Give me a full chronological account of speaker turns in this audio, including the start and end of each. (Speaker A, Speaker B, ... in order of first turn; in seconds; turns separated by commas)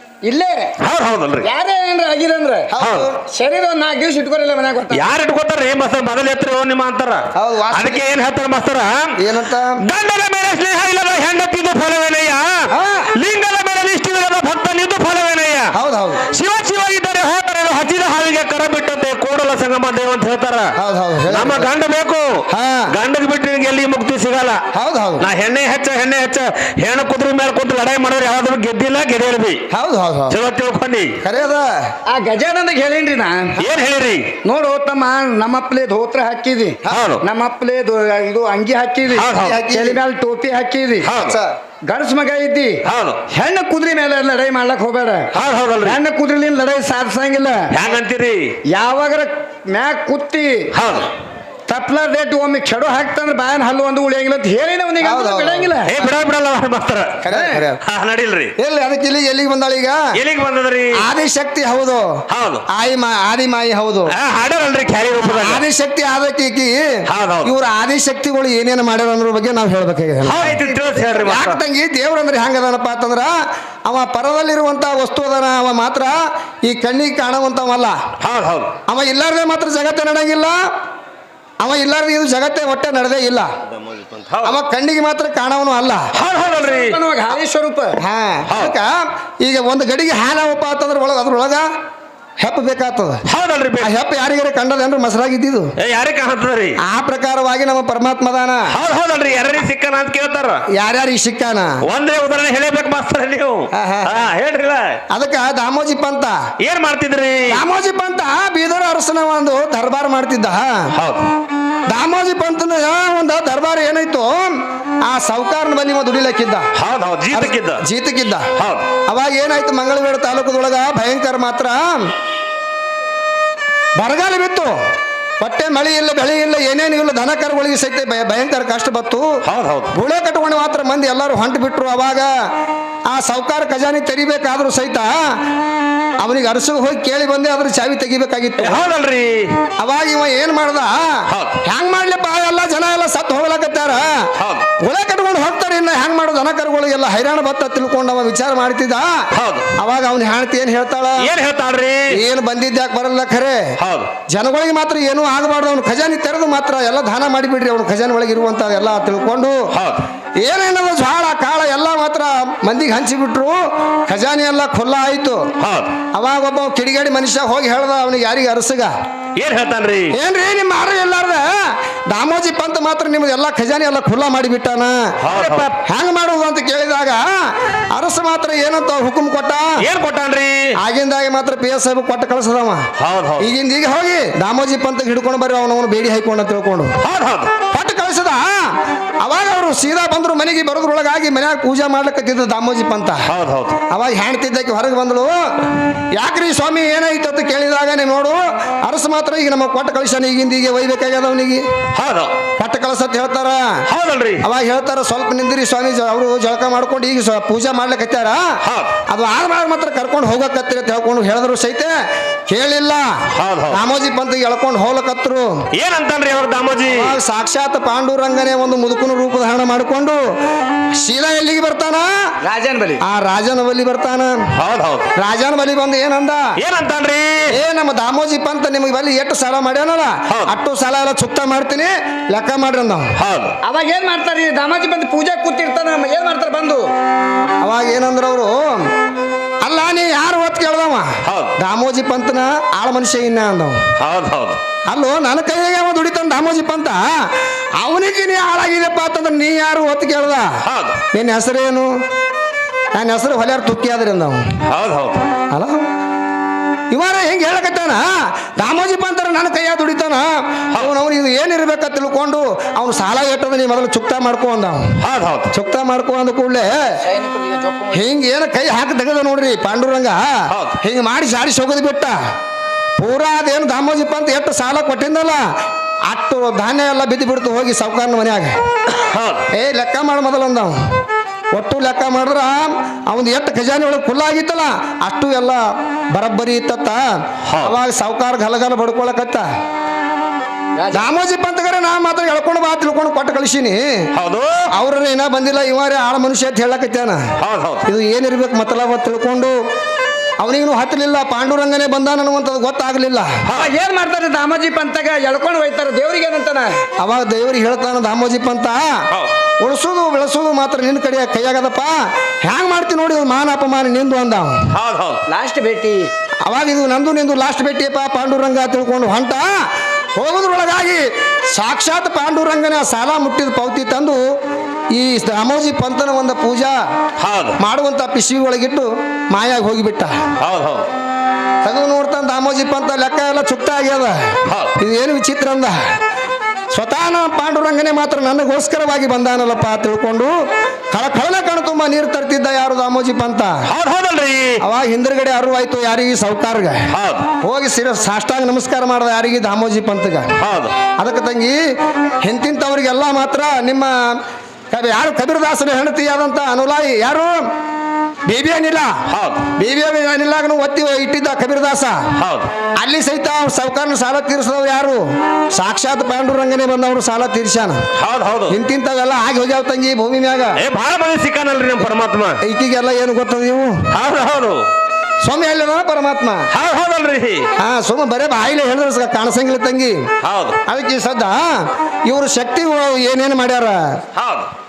Speaker A: 0.2-0.8, Speaker B: 0.8-1.5, Speaker A: 1.4-2.7, Speaker C: 2.7-3.2, Speaker B: 2.8-3.1, Speaker A: 3.3-5.1, Speaker B: 4.9-9.2, Speaker C: 7.3-8.0, Speaker C: 9.2-9.8, Speaker B: 9.8-15.8, Speaker C: 12.7-13.1, Speaker C: 15.7-16.2, Speaker B: 16.3-20.8, Speaker C: 20.8-21.7, Speaker B: 21.3-24.6, Speaker C: 22.5-22.9, Speaker C: 24.7-25.3, Speaker B: 25.2-29.6, Speaker C: 29.7-30.4, Speaker B: 30.3-31.2, Speaker C: 31.2-31.9, Speaker A: 32.1-33.6, Speaker B: 33.6-34.3, Speaker A: 34.4-41.1, Speaker B: 36.9-37.2, Speaker B: 39.1-39.6, Speaker C: 39.3-40.0, Speaker B: 41.0-41.4, Speaker C: 41.1-41.6, Speaker A: 41.9-45.3, Speaker B: 42.9-43.2, Speaker B: 45.3-46.0, Speaker A: 45.8-47.8, Speaker B: 47.7-48.5, Speaker A: 48.7-50.7, Speaker B: 50.7-51.1, Speaker A: 51.7-55.9, Speaker C: 55.0-56.1, Speaker B: 55.9-57.3, Speaker C: 57.2-57.8, Speaker A: 57.3-57.6, Speaker B: 57.8-58.5, Speaker C: 58.6-60.1, Speaker B: 60.1-61.0, Speaker C: 61.0-64.2, Speaker B: 62.3-62.6, Speaker B: 64.1-65.6, Speaker C: 65.2-73.3, Speaker B: 67.1-67.5, Speaker B: 70.2-71.6, Speaker C: 73.9-78.0, Speaker B: 78.2-78.7, Speaker C: 78.9-80.7, Speaker C: 81.6-83.5, Speaker B: 83.9-84.6, Speaker C: 84.4-86.1, Speaker B: 86.1-87.0, Speaker A: 86.6-88.0, Speaker C: 88.0-91.7, Speaker B: 88.5-88.8, Speaker C: 92.4-93.2, Speaker B: 93.3-94.0, Speaker C: 93.8-95.7, Speaker B: 95.8-96.8, Speaker C: 96.8-98.7, Speaker B: 98.7-100.7, Speaker C: 100.7-101.8, Speaker B: 101.8-105.0, Speaker C: 103.7-104.1, Speaker C: 105.1-106.4, Speaker B: 106.6-107.6, Speaker C: 107.5-110.9, Speaker B: 110.9-111.3, Speaker C: 111.9-116.7, Speaker B: 116.8-117.8, Speaker C: 117.3-118.5, Speaker B: 118.6-118.9, Speaker C: 119.1-122.1, Speaker C: 124.0-124.8, Speaker C: 125.4-129.3, Speaker B: 129.4-129.9, Speaker C: 129.9-132.3, Speaker C: 133.1-135.4, Speaker C: 136.2-138.9, Speaker B: 138.6-139.6, Speaker C: 139.8-144.3, Speaker B: 141.3-141.6, Speaker B: 144.4-144.7, Speaker C: 144.8-151.3, Speaker B: 149.3-149.7, Speaker B: 151.2-152.2, Speaker C: 152.1-153.7, Speaker B: 153.8-154.1, Speaker C: 154.3-159.7, Speaker B: 159.7-160.0, Speaker C: 160.4-165.5, Speaker B: 165.6-165.9, Speaker C: 166.1-168.9, Speaker B: 169.4-170.2, Speaker C: 170.1-179.8, Speaker B: 175.2-175.7, Speaker B: 179.8-180.7, Speaker C: 180.8-182.9, Speaker B: 183.0-183.5, Speaker C: 183.4-187.0, Speaker B: 187.0-187.6, Speaker C: 187.7-193.3, Speaker B: 193.3-193.8, Speaker C: 193.9-195.6, Speaker C: 196.1-201.7, Speaker B: 201.9-202.4, Speaker C: 202.6-203.8, Speaker B: 203.9-204.5, Speaker C: 204.4-208.5, Speaker B: 208.6-209.0, Speaker C: 209.1-212.0, Speaker C: 212.5-215.6, Speaker B: 213.3-213.8, Speaker B: 215.7-217.2, Speaker C: 216.9-220.2, Speaker C: 221.0-222.1, Speaker A: 222.4-223.0, Speaker C: 223.0-224.4, Speaker B: 224.5-225.1, Speaker C: 225.2-226.6, Speaker B: 226.6-227.5, Speaker C: 227.5-233.1, Speaker B: 230.3-230.5, Speaker B: 233.2-233.6, Speaker A: 233.6-236.9, Speaker C: 237.6-238.9, Speaker C: 239.6-243.8, Speaker B: 241.2-241.6, Speaker B: 244.0-244.6, Speaker C: 244.9-250.6, Speaker B: 250.7-251.0, Speaker C: 251.1-251.9, Speaker C: 252.9-254.4, Speaker B: 254.7-255.3, Speaker C: 255.5-255.9, Speaker C: 256.9-264.9, Speaker B: 265.0-265.5, Speaker C: 265.5-267.0, Speaker A: 267.0-268.0, Speaker C: 267.9-272.2, Speaker B: 270.5-270.8, Speaker C: 273.0-275.5, Speaker C: 276.1-278.6, Speaker B: 279.0-279.5, Speaker C: 279.5-280.8, Speaker C: 281.5-289.5, Speaker B: 287.5-287.8, Speaker A: 290.8-291.1, Speaker C: 290.9-294.1, Speaker B: 294.1-294.7, Speaker C: 294.7-297.3, Speaker B: 297.4-297.9, Speaker C: 297.9-299.6, Speaker C: 300.4-303.4, Speaker B: 303.4-303.7, Speaker A: 303.5-306.8, Speaker C: 307.0-309.1, Speaker C: 309.6-314.6, Speaker B: 314.7-315.2, Speaker A: 315.3-316.1, Speaker C: 316.4-324.2, Speaker C: 324.9-326.8, Speaker B: 327.2-327.6, Speaker C: 327.6-330.2, Speaker B: 330.4-330.9, Speaker C: 331.6-335.8, Speaker B: 334.5-334.8, Speaker C: 336.7-340.3, Speaker C: 340.9-343.6, Speaker B: 343.7-344.6, Speaker C: 344.6-346.8, Speaker B: 346.9-347.3, Speaker C: 347.4-350.3, Speaker B: 350.4-350.8, Speaker C: 351.0-351.6, Speaker C: 352.2-357.4, Speaker C: 358.3-359.0, Speaker B: 359.1-359.5, Speaker C: 359.6-362.1, Speaker B: 362.2-362.5, Speaker C: 362.8-367.8, Speaker B: 368.0-368.6, Speaker C: 368.5-370.6, Speaker B: 370.6-372.4, Speaker C: 372.4-373.8, Speaker B: 373.9-374.6, Speaker C: 375.2-376.5, Speaker B: 376.5-377.5, Speaker C: 377.6-380.1, Speaker B: 380.2-380.6, Speaker C: 380.7-384.0, Speaker B: 384.1-384.5